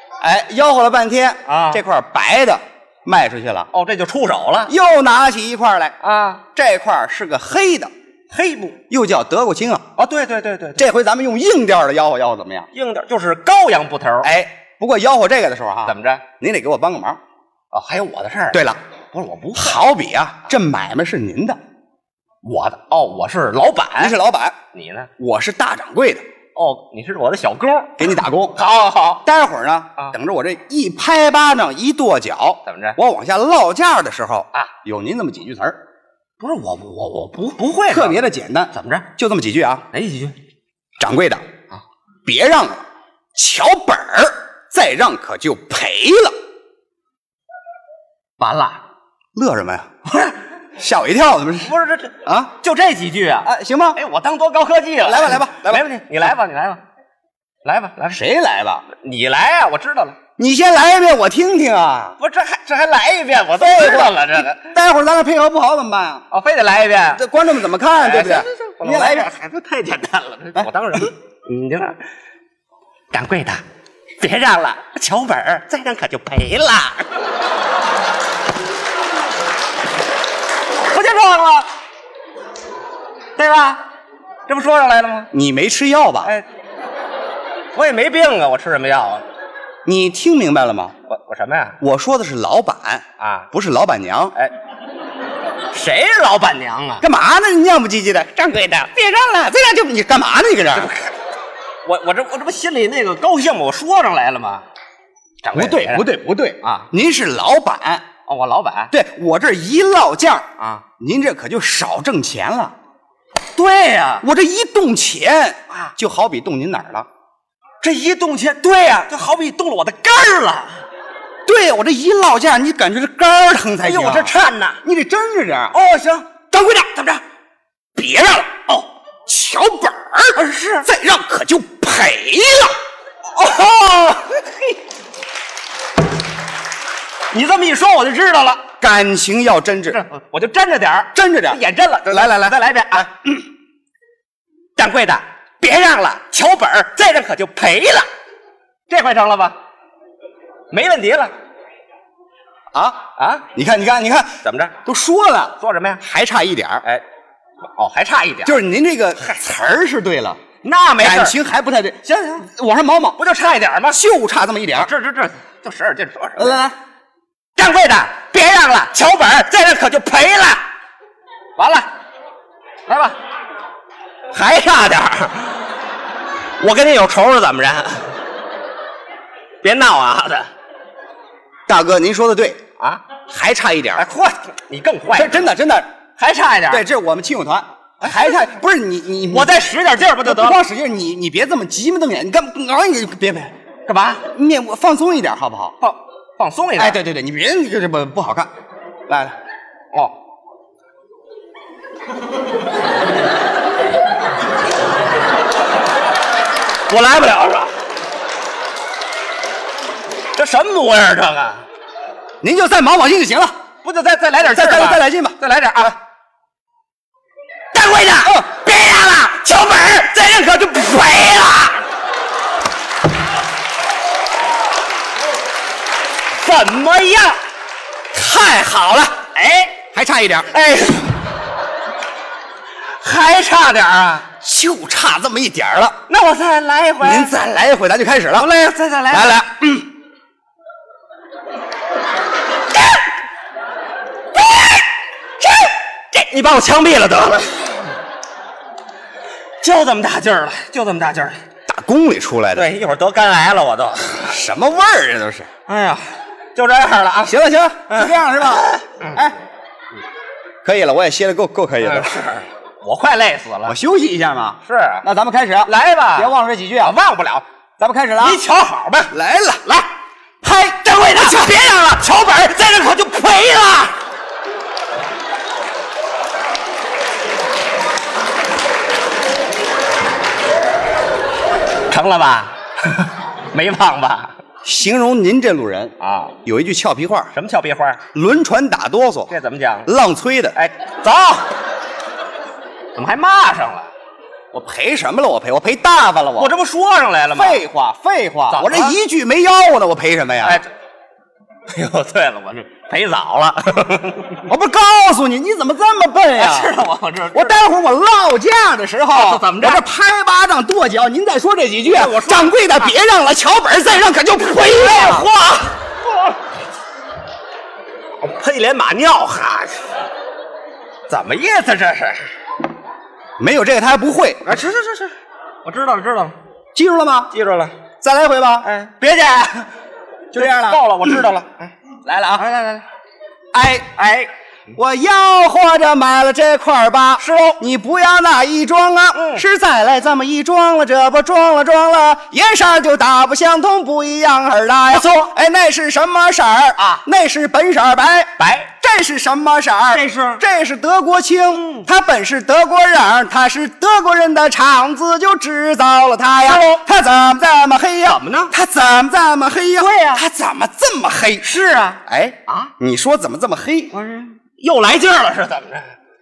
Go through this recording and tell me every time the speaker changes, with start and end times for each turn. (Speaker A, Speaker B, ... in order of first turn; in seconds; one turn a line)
Speaker A: 0.2-3.7
Speaker B: 1.5-1.8
Speaker B: 3.7-4.7
Speaker A: 4.7-5.9
Speaker B: 6.0-6.4
Speaker A: 6.5-7.9
Speaker B: 8.3-8.8
Speaker A: 8.9-9.9
Speaker B: 10.0-10.8
Speaker A: 10.8-12.7
Speaker B: 12.7-14.3
Speaker A: 14.2-17.2
Speaker B: 15.9-16.3
Speaker B: 17.7-19.8
Speaker A: 18.5-18.8
Speaker A: 19.6-21.6
Speaker B: 22.4-24.2
Speaker A: 24.0-24.6
Speaker B: 24.7-25.1
Speaker A: 25.2-26.2
Speaker B: 26.6-29.2
Speaker A: 28.0-28.6
Speaker A: 29.2-35.8
Speaker B: 32.7-33.0
Speaker B: 36.4-38.2
Speaker A: 37.9-39.9
Speaker B: 38.7-39.1
Speaker B: 39.9-40.4
Speaker A: 41.0-41.5
Speaker A: 42.2-42.8
Speaker A: 43.4-46.4
Speaker B: 48.4-48.8
Speaker A: 49.4-50.0
Speaker A: 50.8-51.7
Speaker B: 51.6-56.8
Speaker A: 52.2-52.5
Speaker A: 53.5-54.0
Speaker A: 55.0-55.8
Speaker B: 57.6-58.2
Speaker A: 58.1-58.9
Speaker B: 58.9-60.2
Speaker A: 60.4-62.2
Speaker B: 62.2-64.7
Speaker A: 63.6-66.2
Speaker B: 66.3-67.2
Speaker A: 67.1-69.3
Speaker B: 68.0-72.0
Speaker B: 73.1-73.6
Speaker B: 74.2-77.1
Speaker B: 80.9-81.7
Speaker B: 83.4-83.8
Speaker B: 84.5-85.3
Speaker A: 85.3-86.3
Speaker B: 87.7-89.2
Speaker A: 89.9-90.9
Speaker B: 91.1-91.8
Speaker A: 91.8-94.3
Speaker B: 93.2-93.5
Speaker B: 95.7-97.0
Speaker A: 97.0-100.9
Speaker B: 100.7-101.1
Speaker B: 101.9-104.6
Speaker B: 105.4-106.1
Speaker A: 105.5-108.1
Speaker B: 108.3-108.9
Speaker A: 108.9-112.7
Speaker B: 110.6-110.8
Speaker B: 113.6-114.2
Speaker A: 114.2-117.1
Speaker B: 117.8-120.8
Speaker A: 121.5-125.8
Speaker B: 123.8-124.8
Speaker B: 125.7-127.2
Speaker A: 126.5-127.1
Speaker A: 128.0-128.7
Speaker A: 129.3-132.8
Speaker B: 130.3-130.9
Speaker B: 133.4-134.8
Speaker B: 137.3-138.7
Speaker A: 138.8-140.0
Speaker B: 139.9-143.1
Speaker A: 141.1-143.1
Speaker B: 144.8-148.1
Speaker B: 148.9-149.6
Speaker B: 150.7-151.3
Speaker A: 152.7-156.8
Speaker B: 153.2-153.4
Speaker B: 154.4-154.7
Speaker B: 155.6-156.0
Speaker B: 157.8-158.6
Speaker A: 158.4-160.4
Speaker B: 160.6-161.4
Speaker A: 161.0-163.2
Speaker B: 162.1-162.5
Speaker B: 163.2-164.0
Speaker A: 163.9-164.9
Speaker B: 164.8-166.6
Speaker A: 166.4-166.8
Speaker B: 167.6-170.6
Speaker B: 171.6-171.9
Speaker B: 172.9-173.2
Speaker B: 174.3-175.6
Speaker B: 176.6-178.1
Speaker B: 179.6-180.5
Speaker A: 181.7-182.6
Speaker A: 183.3-184.1
Speaker B: 184.0-185.5
Speaker A: 185.1-185.9
Speaker B: 186.2-186.8
Speaker A: 186.7-189.6
Speaker B: 188.0-188.5
Speaker B: 189.3-190.6
Speaker A: 190.2-193.5
Speaker B: 193.9-194.3
Speaker A: 194.3-195.8
Speaker B: 195.8-197.0
Speaker A: 196.8-198.5
Speaker A: 199.1-199.3
Speaker B: 206.9-207.7
Speaker B: 210.4-211.6
Speaker A: 212.4-213.6
Speaker B: 213.8-216.0
Speaker A: 214.5-215.9
Speaker B: 217.7-221.8
Speaker A: 218.2-218.6
Speaker B: 226.4-227.4
Speaker A: 228.1-229.3
Speaker B: 229.3-229.8
Speaker A: 229.9-230.5
Speaker B: 230.5-231.2
Speaker B: 233.0-234.3
Speaker A: 234.4-236.0
Speaker B: 236.1-237.4
Speaker A: 237.0-238.5
Speaker B: 238.4-239.4
Speaker A: 239.1-239.9
Speaker B: 244.4-244.9
Speaker B: 245.4-247.8
Speaker B: 249.6-251.4
Speaker A: 251.7-252.7
Speaker B: 252.6-254.3
Speaker A: 254.3-255.5
Speaker B: 255.7-256.0
Speaker B: 256.6-257.4
Speaker A: 257.2-259.4
Speaker B: 257.9-259.2
Speaker A: 260.6-262.2
Speaker B: 261.8-263.8
Speaker A: 263.7-266.9
Speaker B: 264.7-265.1
Speaker B: 265.6-267.4
Speaker A: 267.8-268.4
Speaker B: 268.2-269.1
Speaker A: 269.1-269.8
Speaker A: 270.4-271.6
Speaker B: 270.8-273.9
Speaker B: 281.9-284.3
Speaker A: 284.6-285.9
Speaker B: 286.0-286.4
Speaker A: 286.4-287.3
Speaker B: 287.4-288.0
Speaker A: 288.1-289.4
Speaker B: 289.3-289.9
Speaker A: 289.9-290.6
Speaker B: 290.6-291.5
Speaker B: 292.9-293.9
Speaker A: 294.5-296.5
Speaker B: 296.4-297.6
Speaker A: 297.3-300.6
Speaker B: 298.5-299.0
Speaker B: 300.4-300.7
Speaker B: 301.7-304.4
Speaker A: 304.5-306.7
Speaker B: 306.4-307.6
Speaker A: 307.3-315.3
Speaker B: 309.1-309.8
Speaker B: 311.9-312.9
Speaker B: 314.6-315.7
Speaker B: 318.2-319.8
Speaker B: 321.1-322.2
Speaker A: 323.4-324.4
Speaker B: 324.5-325.1
Speaker B: 325.6-326.4
Speaker A: 326.8-327.3
Speaker B: 327.3-327.7
Speaker A: 328.0-328.7
Speaker B: 328.6-329.7
Speaker A: 330.3-331.1
Speaker B: 330.3-331.7
Speaker A: 332.1-332.4
Speaker B: 332.3-332.8
Speaker A: 333.5-334.0
Speaker B: 334.0-334.3
Speaker A: 334.8-361.5
Speaker B: 337.2-337.6
Speaker B: 339.1-339.4
Speaker B: 344.9-345.3
Speaker B: 348.4-348.7
Speaker B: 349.9-350.4
Speaker B: 351.6-351.9
Speaker B: 356.5-356.8
Speaker B: 358.1-358.5
Speaker B: 359.8-360.2
Speaker B: 361.4-362.7
Speaker A: 362.1-363.9
Speaker B: 363.9-365.9